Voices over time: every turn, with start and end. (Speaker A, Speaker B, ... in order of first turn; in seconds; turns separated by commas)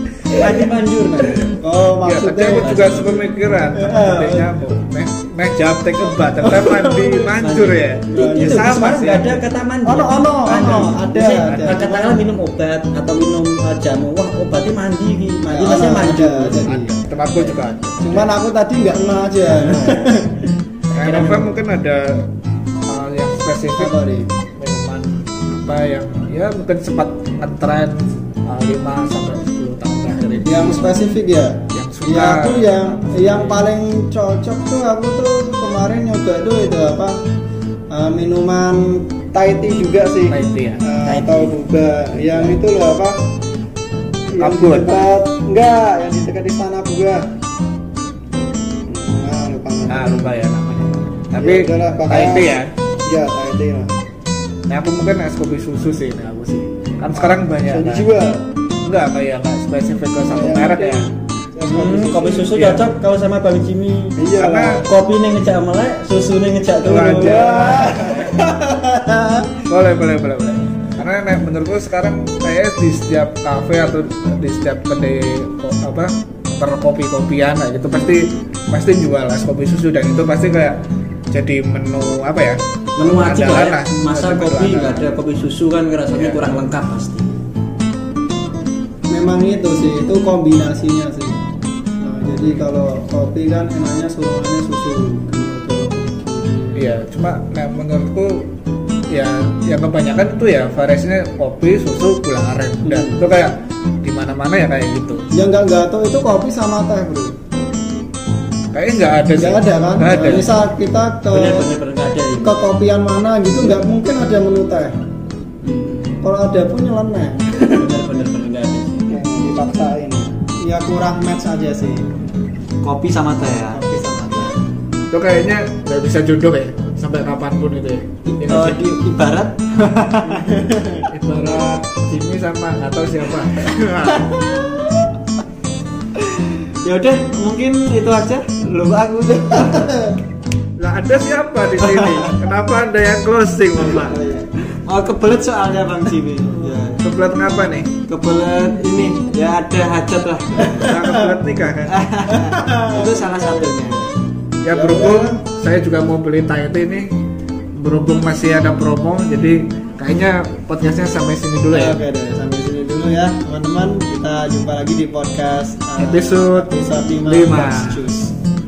Speaker A: 0.3-0.7, Speaker B: 0.3-1.5, Speaker A: 1.2-2.9, Speaker C: 2.0-9.4, Speaker B: 2.6-3.3, Speaker A: 3.6-4.7, Speaker A: 6.0-7.4, Speaker B: 7.4-18.2, Speaker A: 8.1-8.7, Speaker A: 9.8-12.2, Speaker C: 11.4-11.8, Speaker A: 15.5-16.9, Speaker C: 16.7-18.1, Speaker A: 18.0-20.5, Speaker B: 19.5-20.1, Speaker C: 20.9-22.3, Speaker B: 20.9-21.6, Speaker C: 22.9-23.9, Speaker A: 23.8-24.3, Speaker C: 24.6-31.0, Speaker A: 30.4-37.2, Speaker C: 31.7-33.6, Speaker A: 37.9-43.1, Speaker C: 40.3-40.8, Speaker B: 41.0-41.5, Speaker B: 42.1-42.6, Speaker A: 44.3-47.2, Speaker C: 44.4-44.9, Speaker A: 48.9-53.9, Speaker C: 49.9-52.7, Speaker C: 54.7-58.1, Speaker A: 57.1-58.4, Speaker C: 58.8-61.1, Speaker A: 60.3-62.5, Speaker B: 61.6-64.2, Speaker C: 62.5-62.9, Speaker A: 64.2-64.8, Speaker C: 64.4-64.9, Speaker B: 64.8-68.3, Speaker C: 66.8-68.2, Speaker A: 67.2-69.5, Speaker C: 69.7-80.8, Speaker C: 81.3-85.0, Speaker B: 83.0-87.3, Speaker C: 86.1-86.6, Speaker A: 89.1-91.4, Speaker A: 92.0-97.0, Speaker C: 96.8-98.5, Speaker C: 99.1-105.3, Speaker A: 102.8-103.2, Speaker A: 105.3-107.3, Speaker C: 108.7-110.6, Speaker A: 109.3-111.7, Speaker B: 110.1-110.5, Speaker B: 111.3-112.6, Speaker A: 112.4-114.9, Speaker B: 115.6-116.2, Speaker A: 116.2-117.9, Speaker B: 117.8-119.2, Speaker A: 119.1-122.1, Speaker B: 122.8-123.8, Speaker A: 123.7-124.7, Speaker C: 125.1-128.8, Speaker B: 128.4-130.6, Speaker A: 130.2-131.1, Speaker C: 131.1-134.4, Speaker B: 136.8-139.9, Speaker A: 139.4-140.1, Speaker C: 140.8-144.2, Speaker A: 144.0-144.5, Speaker B: 144.7-147.0, Speaker C: 147.0-147.9, Speaker B: 148.1-150.9, Speaker A: 150.6-151.4, Speaker C: 150.7-152.0, Speaker B: 151.9-154.1, Speaker A: 152.3-153.9, Speaker C: 154.6-157.1, Speaker A: 154.7-155.4, Speaker C: 157.8-162.0, Speaker A: 161.7-168.3, Speaker C: 166.0-166.7, Speaker C: 167.2-168.1